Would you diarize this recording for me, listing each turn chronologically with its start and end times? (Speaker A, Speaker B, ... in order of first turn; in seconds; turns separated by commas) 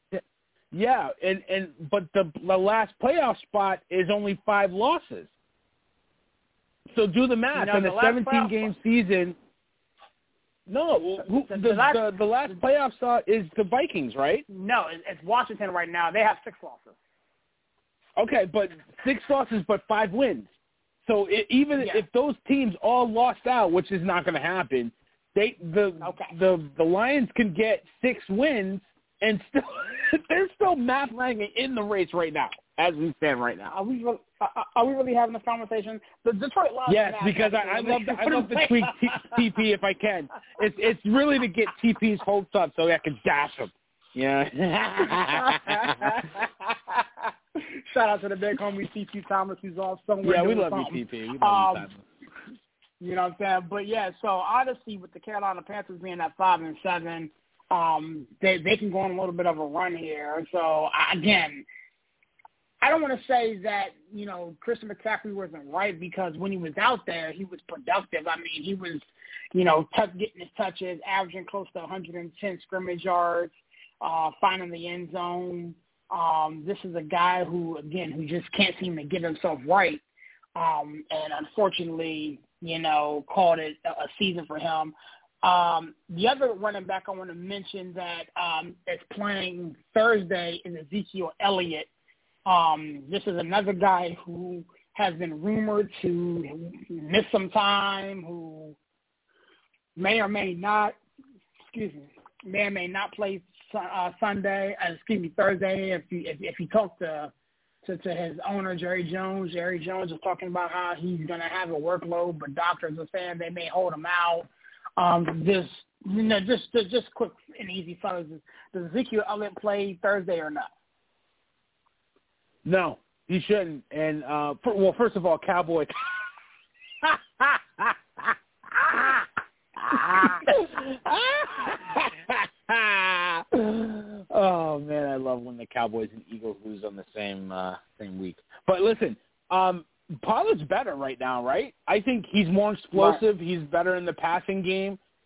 Speaker A: 0.1-5.3, Speaker A: 6.9-9.4, Speaker B: 7.5-8.7, Speaker A: 10.7-14.4, Speaker B: 11.5-12.0, Speaker B: 14.5-17.0, Speaker A: 18.2-20.5, Speaker A: 21.1-33.7, Speaker B: 21.8-22.0, Speaker B: 26.0-26.4, Speaker B: 33.7-39.4, Speaker A: 36.9-46.1, Speaker B: 45.1-47.0, Speaker B: 47.6-51.9, Speaker A: 50.2-52.0, Speaker B: 53.0-61.7, Speaker B: 62.8-80.0, Speaker B: 80.6-91.9, Speaker B: 92.5-98.8, Speaker B: 100.0-101.0, Speaker B: 101.7-107.3, Speaker B: 107.8-120.7, Speaker A: 122.7-126.2, Speaker A: 127.0-129.3, Speaker A: 129.8-145.0, Speaker B: 142.9-143.2